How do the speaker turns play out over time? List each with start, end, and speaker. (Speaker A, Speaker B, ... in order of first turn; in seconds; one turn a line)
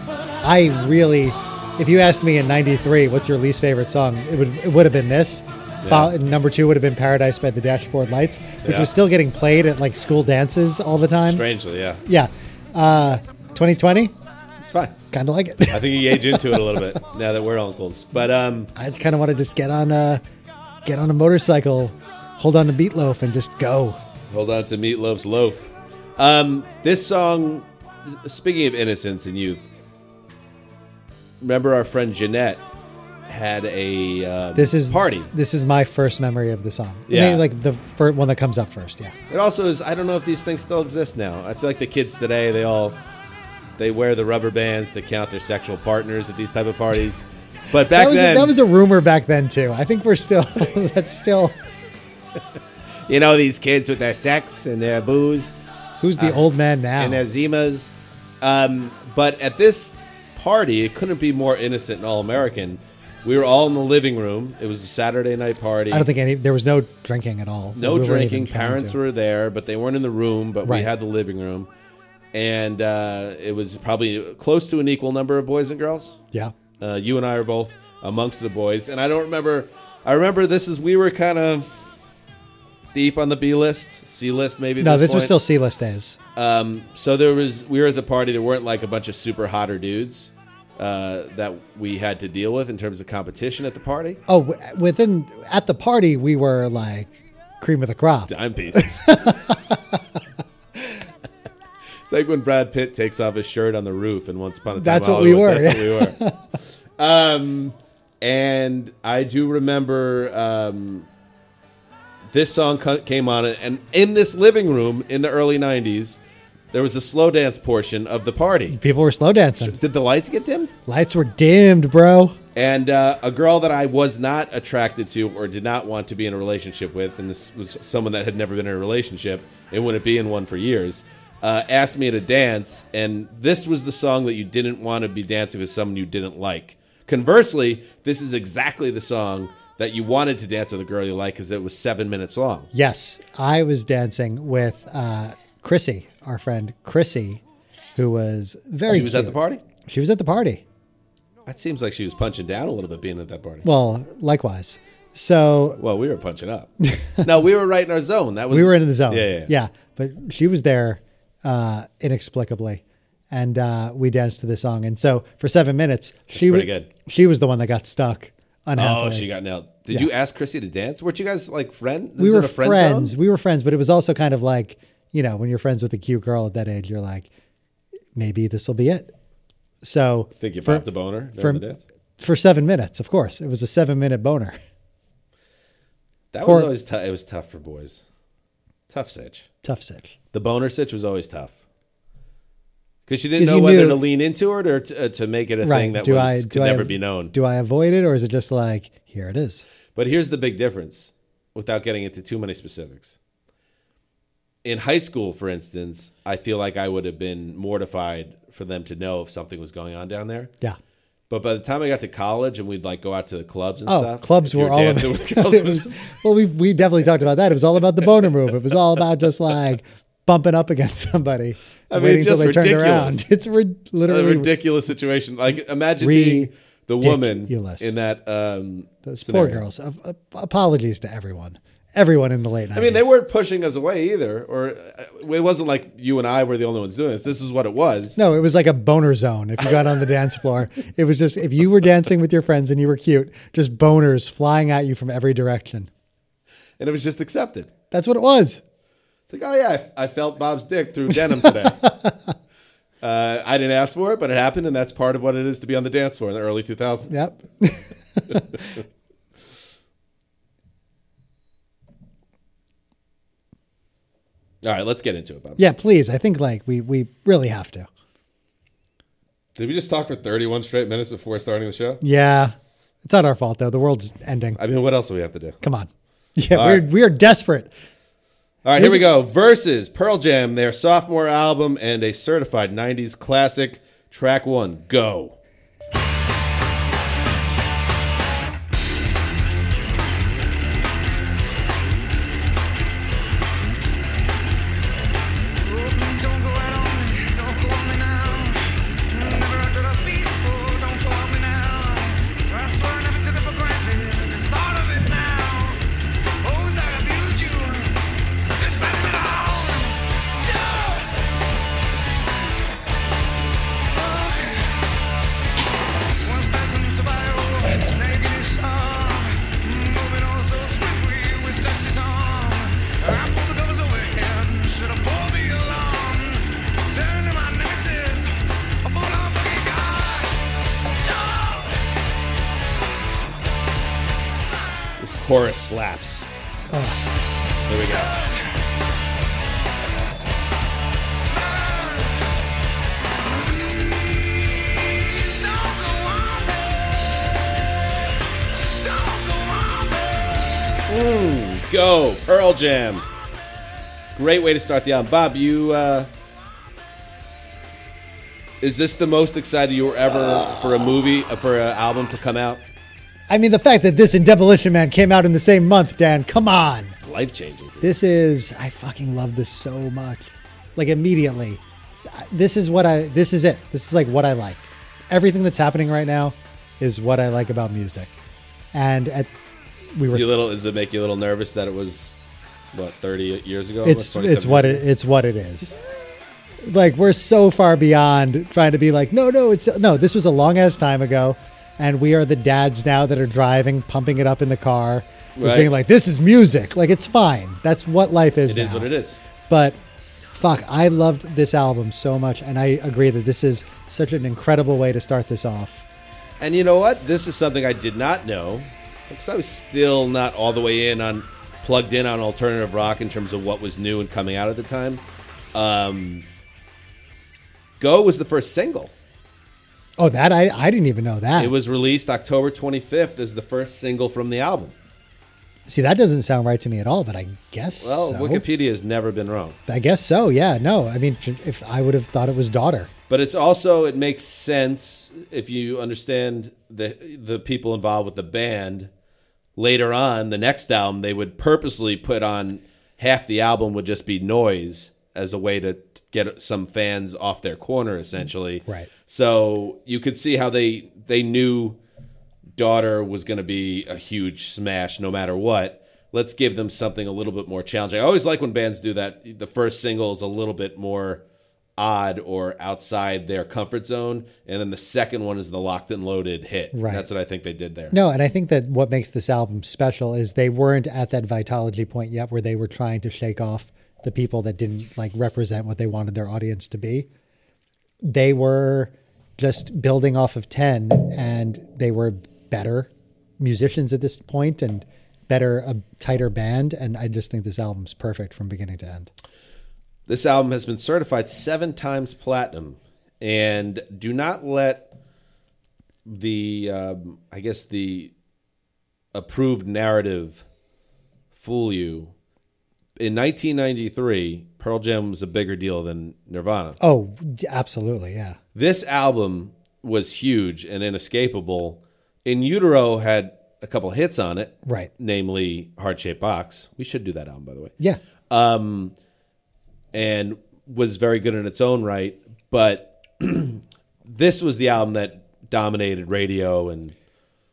Speaker A: 0.4-11.4
Speaker B: 5.8-6.1
Speaker B: 8.6-8.9
Speaker B: 11.2-12.0
Speaker A: 12.0-14.1
Speaker B: 14.6-15.0
Speaker A: 15.1-16.8
Speaker B: 15.7-18.7
Speaker A: 18.8-20.2
Speaker A: 20.8-24.0
Speaker B: 24.3-29.6
Speaker B: 31.4-32.6
Speaker B: 33.2-35.3
Speaker A: 34.5-39.1
Speaker B: 37.1-37.4
Speaker B: 39.3-43.0
Speaker B: 43.8-48.6
Speaker A: 47.9-51.5
Speaker B: 53.1-55.5
Speaker A: 56.0-57.2
Speaker B: 56.2-56.4
Speaker B: 57.0-57.9
Speaker B: 58.4-66.1
Speaker A: 65.9-69.0
Speaker B: 67.7-71.7
Speaker B: 72.3-76.2
Speaker B: 76.8-81.7
Speaker B: 82.9-85.4
Speaker A: 84.8-86.2
Speaker B: 86.3-94.2
Speaker A: 94.3-99.8
Speaker B: 98.3-99.3
Speaker B: 102.0-106.2
Speaker A: 104.7-106.3
Speaker B: 107.0-111.1
Speaker B: 112.3-116.2
Speaker B: 116.7-118.8
Speaker A: 118.7-119.8
Speaker B: 119.6-120.7
Speaker A: 120.9-122.4
Speaker B: 122.5-142.7
Speaker A: 142.7-147.4
Speaker A: 147.9-150.6
Speaker B: 148.9-149.6
Speaker B: 151.4-153.6
Speaker A: 153.6-155.8
Speaker B: 155.8-159.5
Speaker A: 156.8-157.2
Speaker A: 158.5-169.3
Speaker B: 166.3-166.9
Speaker B: 168.8-173.2
Speaker A: 172.2-177.3
Speaker A: 178.2-179.1
Speaker A: 179.8-180.8
Speaker B: 180.4-181.8
Speaker A: 181.4-181.6
Speaker A: 182.2-184.6
Speaker B: 186.3-188.0
Speaker A: 186.4-186.7
Speaker B: 188.9-189.5
Speaker A: 189.6-190.1
Speaker B: 190.3-191.6
Speaker B: 193.1-197.3
Speaker A: 193.4-194.0
Speaker A: 195.6-199.6
Speaker B: 199.9-203.2
Speaker B: 204.6-210.5
Speaker B: 211.3-216.1
Speaker A: 213.9-224.5
Speaker B: 221.9-223.3
Speaker B: 224.1-229.6
Speaker A: 226.0-227.9
Speaker A: 229.0-233.1
Speaker B: 232.7-238.2
Speaker A: 238.2-245.9
Speaker B: 246.8-247.7
Speaker A: 247.9-248.6
Speaker B: 249.3-251.8
Speaker B: 253.0-257.3
Speaker A: 257.1-258.5
Speaker B: 264.6-265.6
Speaker A: 265.6-267.9
Speaker B: 269.6-272.0
Speaker A: 272.0-274.6
Speaker B: 274.6-275.6
Speaker A: 275.6-277.7
Speaker B: 276.5-276.9
Speaker B: 278.6-285.4
Speaker A: 278.8-279.0
Speaker C: 295.6-308.0
Speaker C: 308.6-311.1
Speaker C: 313.9-314.8
Speaker C: 316.2-331.8
Speaker B: 335.0-336.2
Speaker A: 336.7-337.0
Speaker B: 337.7-338.1
Speaker C: 337.7-338.5
Speaker C: 341.3-342.3
Speaker C: 343.3-346.9
Speaker C: 348.7-350.4
Speaker B: 350.9-353.0
Speaker B: 354.1-356.1
Speaker B: 358.6-362.6
Speaker A: 363.3-366.9
Speaker B: 367.0-367.9
Speaker A: 367.8-378.1
Speaker A: 378.7-379.3
Speaker A: 379.9-380.2
Speaker B: 380.1-382.1
Speaker B: 382.7-384.8
Speaker A: 383.8-385.8
Speaker A: 386.6-398.9
Speaker B: 395.4-395.7
Speaker B: 398.5-399.2
Speaker A: 399.5-399.8
Speaker A: 400.3-405.8
Speaker B: 406.4-415.0
Speaker B: 415.5-416.2
Speaker B: 417.8-418.9
Speaker A: 420.0-421.5
Speaker B: 421.4-424.7
Speaker A: 425.7-428.4
Speaker B: 427.8-429.6
Speaker A: 429.7-432.9
Speaker B: 433.1-438.9
Speaker B: 439.6-451.8
Speaker B: 452.6-461.2
Speaker B: 461.8-467.9
Speaker A: 466.7-467.0
Speaker A: 467.9-477.1
Speaker A: 478.0-482.9
Speaker A: 483.4-489.1
Speaker B: 490.1-494.9
Speaker B: 496.1-498.1
Speaker B: 499.1-500.4
Speaker B: 501.3-502.1
Speaker B: 503.0-506.8
Speaker A: 506.8-508.4
Speaker B: 508.5-517.7
Speaker A: 514.6-514.9
Speaker B: 518.3-518.9
Speaker B: 519.9-527.0